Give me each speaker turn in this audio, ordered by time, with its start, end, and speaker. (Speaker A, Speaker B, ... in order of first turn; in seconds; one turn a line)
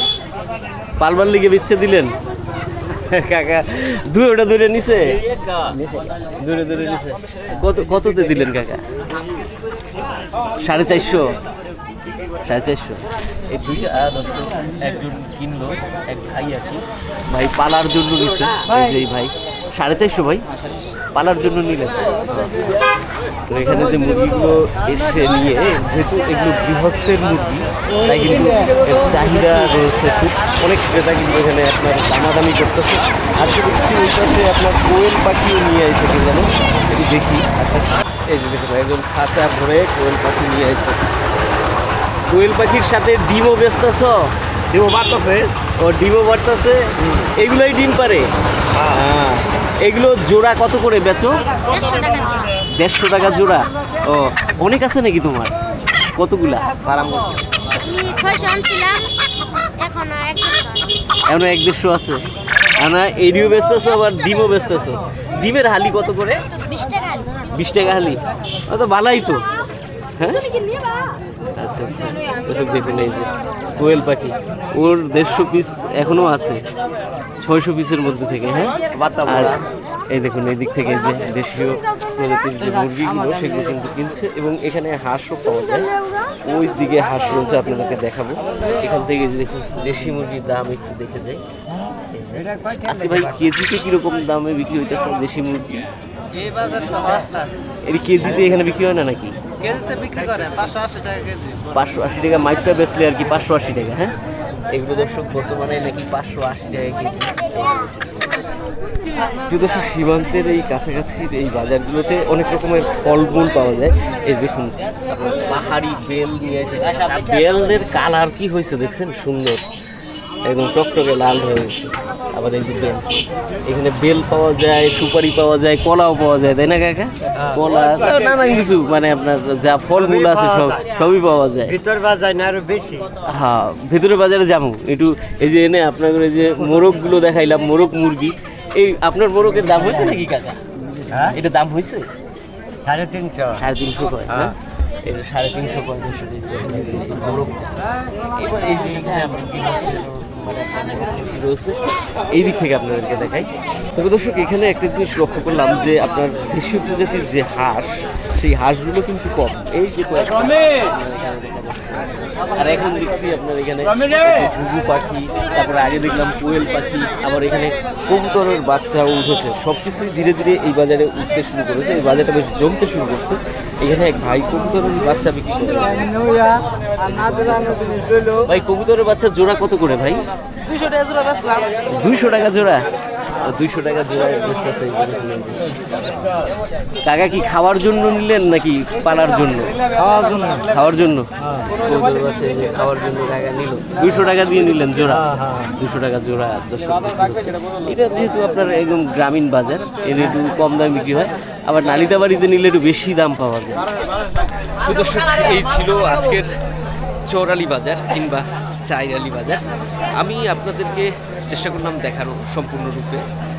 Speaker A: 1.0-2.1
Speaker A: 3.0-5.2
Speaker A: 5.7-8.8
Speaker A: 10.6-11.3
Speaker A: 12.5-20.5
Speaker A: 21.1-22.7
Speaker A: 23.5-41.1
Speaker A: 42.3-44.3
Speaker B: 44.7-45.4
Speaker A: 45.8-48.3
Speaker A: 48.9-51.4
Speaker C: 51.7-52.5
Speaker A: 52.8-55.5
Speaker A: 56.2-57.3
Speaker C: 57.8-59.0
Speaker C: 59.8-61.0
Speaker A: 61.3-62.2
Speaker A: 62.8-66.4
Speaker C: 66.7-67.3
Speaker A: 67.5-69.5
Speaker A: 70.2-70.5
Speaker A: 71.6-76.6
Speaker A: 77.4-79.6
Speaker A: 80.1-85.9
Speaker A: 86.5-91.4
Speaker A: 92.1-95.8
Speaker B: 92.5-93.1
Speaker B: 96.3-97.5
Speaker A: 97.9-99.4
Speaker B: 99.6-101.7
Speaker A: 101.7-104.1
Speaker A: 104.7-108.4
Speaker A: 109.5-119.6
Speaker A: 120.5-123.1
Speaker A: 123.7-131.8
Speaker B: 130.0-130.8
Speaker B: 131.7-133.1
Speaker A: 133.3-140.6
Speaker A: 141.2-142.1
Speaker B: 142.8-143.6
Speaker A: 143.6-147.7
Speaker A: 148.3-151.8
Speaker A: 152.3-180.2
Speaker B: 180.7-181.7
Speaker A: 181.9-182.8
Speaker A: 183.4-186.4
Speaker A: 187.1-189.8
Speaker B: 190.0-190.6
Speaker A: 190.7-203.9
Speaker B: 195.4-195.7
Speaker A: 204.8-206.5
Speaker A: 207.3-209.7
Speaker A: 210.2-213.2